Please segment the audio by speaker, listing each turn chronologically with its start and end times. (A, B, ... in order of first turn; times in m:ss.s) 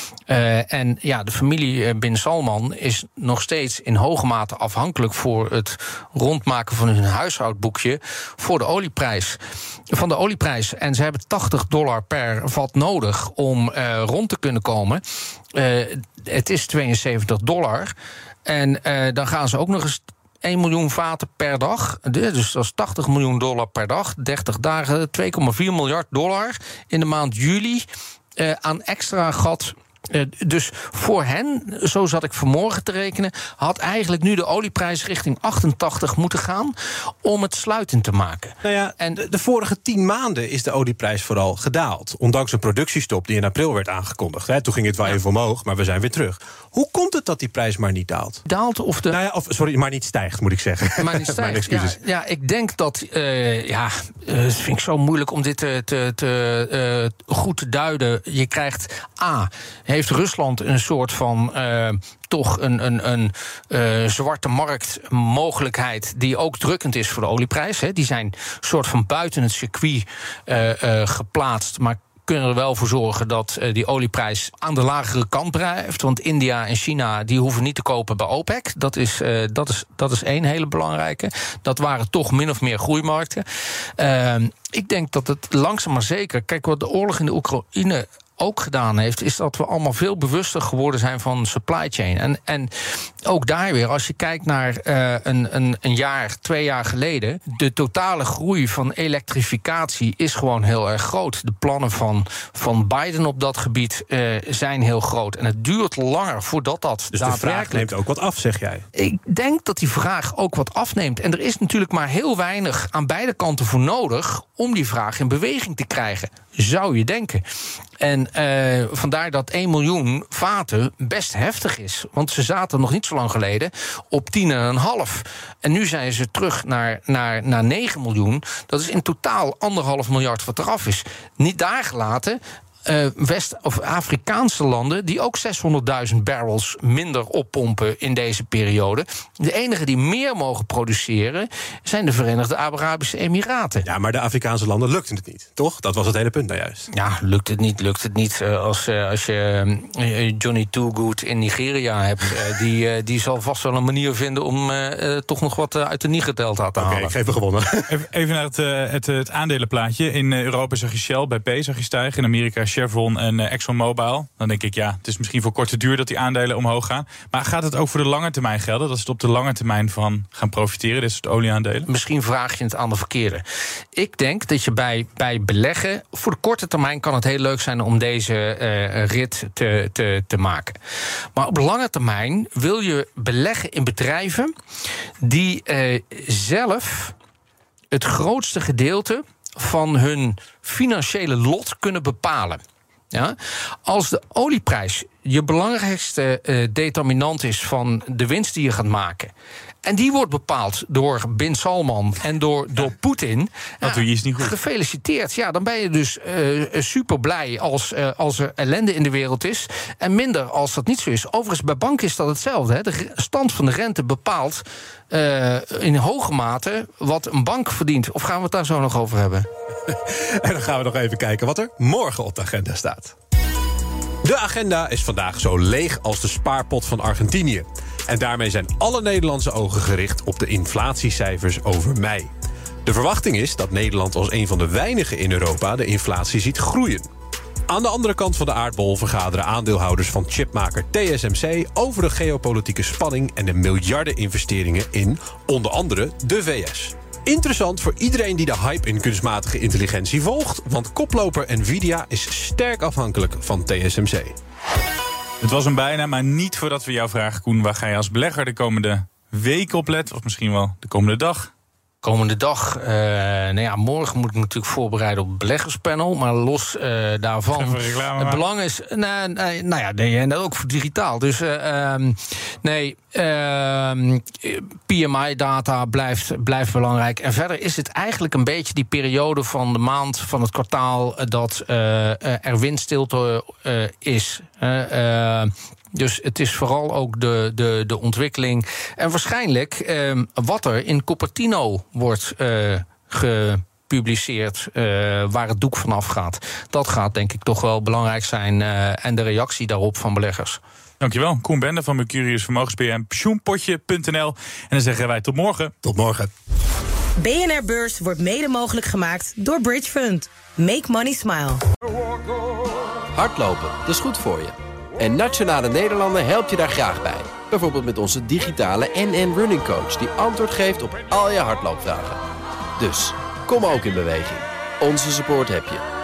0:00.3-0:09.4 A
0:09.9-0:15.0 A
0:15.5-0:17.9 A
0:18.5-0:27.9 A
0:28.4-0:39.2 A
0:38.6-0:48.4 B
0:48.5-0:49.2 A
0:49.1-0:52.0 B
0:51.0-1:23.4 A
1:24.0-1:32.7 A
1:33.2-1:47.9 A
1:47.1-1:48.8 B
1:49.0-1:57.4 A
1:58.0-2:23.9 A
2:23.8-2:26.9 B
2:26.9-2:37.1 A
2:36.8-2:37.9 B
2:37.9-2:51.9 C
2:51.9-2:53.4 A
2:53.9-3:00.8 A
3:01.4-3:04.5 A
3:05.2-3:07.2 A
3:07.9-3:12.6 A
3:13.1-3:19.3 A
3:19.8-3:39.5 A
3:23.8-3:24.6 C
3:39.9-3:43.2 B
3:44.2-3:52.3 B
3:52.8-3:57.1 B
3:57.7-4:14.4 B
4:15.4-4:21.5 C
4:22.0-5:00.6 A
4:27.5-4:28.4 C
5:01.0-5:05.7 C
5:05.8-5:06.3 B
5:07.2-5:11.6 D
5:13.2-5:22.2 E
5:22.8-5:25.9 E